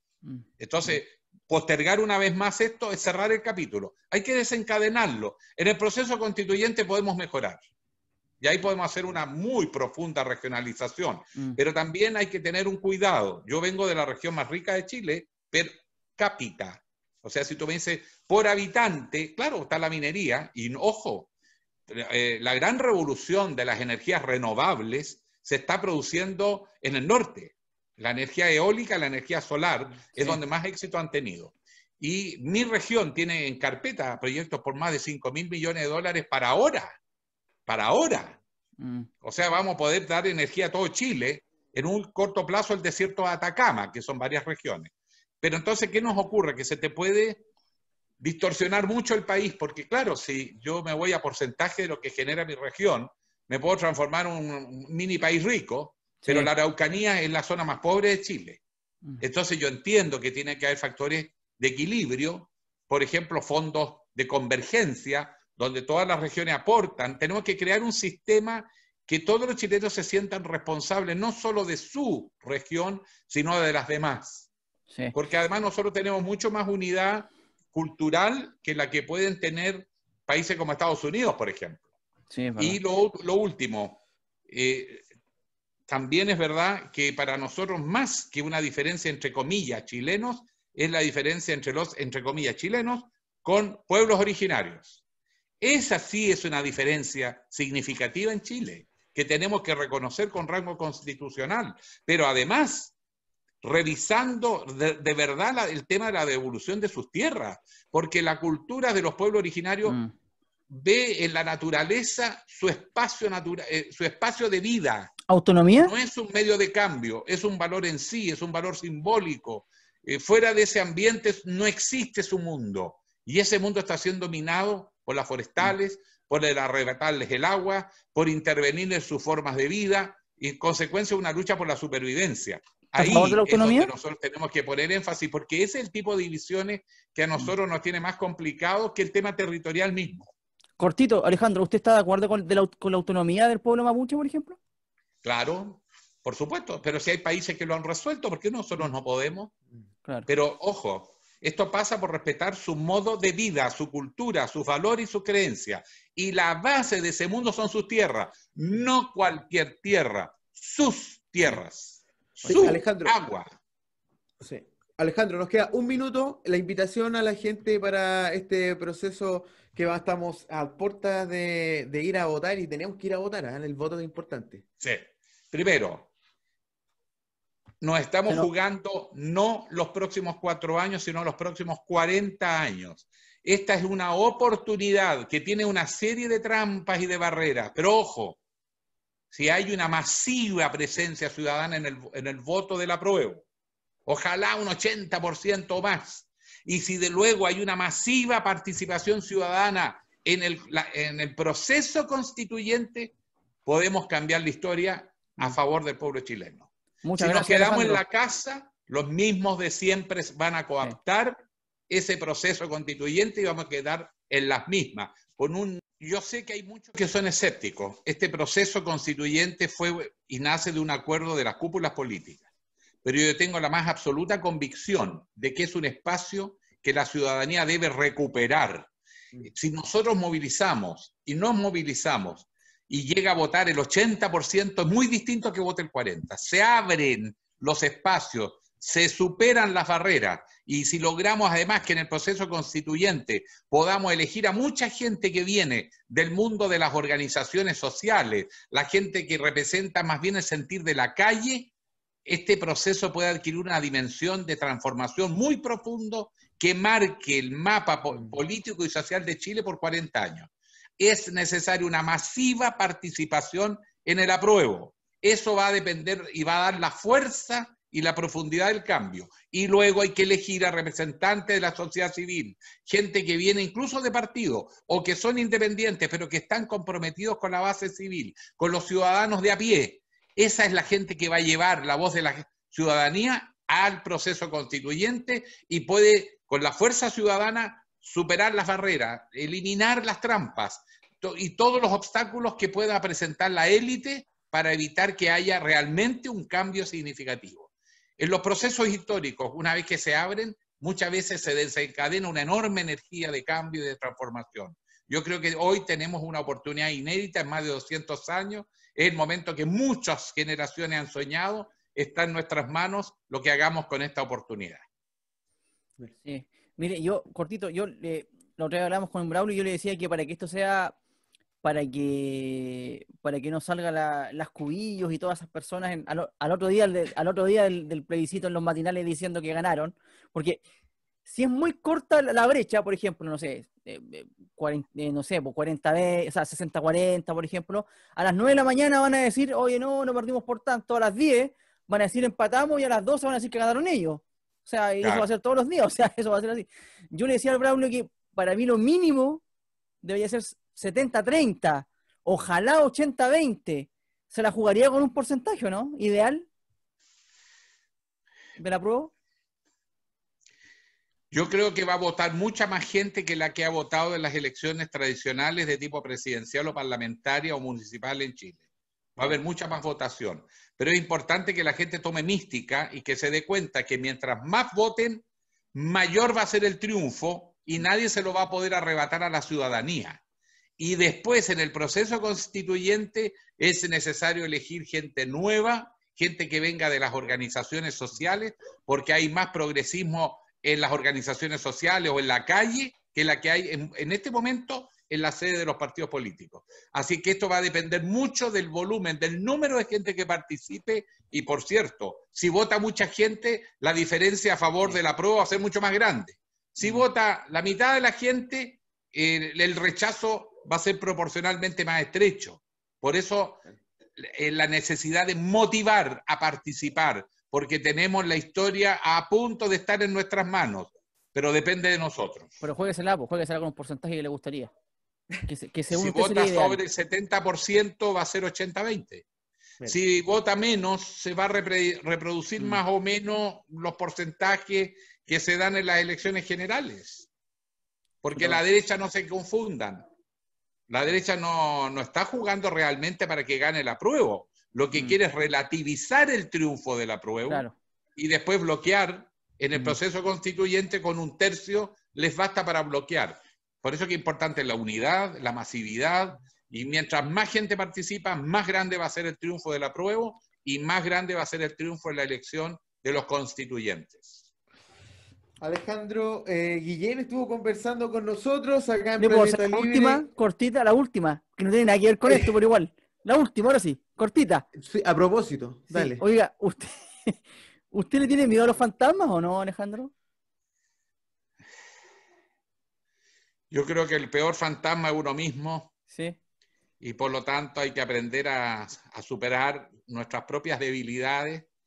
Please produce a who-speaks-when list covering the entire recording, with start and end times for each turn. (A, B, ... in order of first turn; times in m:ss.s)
0:00.6-0:07.6 A
0:08.4-0:21.3 A
0:21.9-0:37.0 A
0:37.6-0:38.4 A
0:38.8-0:39.1 B
0:39.2-0:47.4 A
0:48.2-0:58.6 A
0:56.2-0:56.5 B
0:59.2-1:14.5 A
1:15.1-1:21.8 A
1:22.3-1:22.8 B
1:22.6-1:25.0 A
1:25.9-1:35.0 A
1:35.6-1:42.9 A
1:43.6-1:50.0 A
1:49.8-1:50.1 B
1:50.7-1:55.1 A
1:55.3-1:55.9 B
1:55.8-2:20.3 A
2:13.0-2:13.9 B
2:20.8-2:24.6 B
2:25.2-2:29.5 A
2:30.3-2:43.6 A
2:42.4-2:42.7 B
2:42.5-2:43.1 C
2:44.4-2:54.6 C
2:54.8-2:56.1 A
2:57.8-3:08.4 A
3:09.3-3:13.4 A
3:14.0-3:23.1 A
3:23.6-3:42.4 A
3:27.0-3:28.0 B
3:43.0-3:48.9 A
3:49.4-4:11.7 A
4:12.2-5:14.8 A
5:16.2-5:20.9 B
5:21.6-5:30.6 B
5:31.2-5:49.4 B
5:45.0-5:45.3 A
5:50.0-5:56.5 B
5:58.6-5:59.1 B
6:01.3-6:08.6 A
6:09.2-6:20.2 A
6:20.8-6:53.6 A
6:54.2-7:02.6 A
7:02.6-7:04.7 B
7:05.5-7:06.8 B
7:05.9-7:09.2 A
7:09.8-7:17.3 A
7:18.2-7:20.1 A
7:20.9-7:27.6 A
7:27.5-7:27.7 B
7:28.2-7:44.4 A
7:45.6-7:50.2 C
7:49.2-7:54.6 B
7:52.3-7:52.5 C
7:54.8-7:56.2 C
7:55.9-8:00.1 B
8:03.7-8:05.9 A
8:06.1-8:06.4 B
8:07.0-8:11.7 A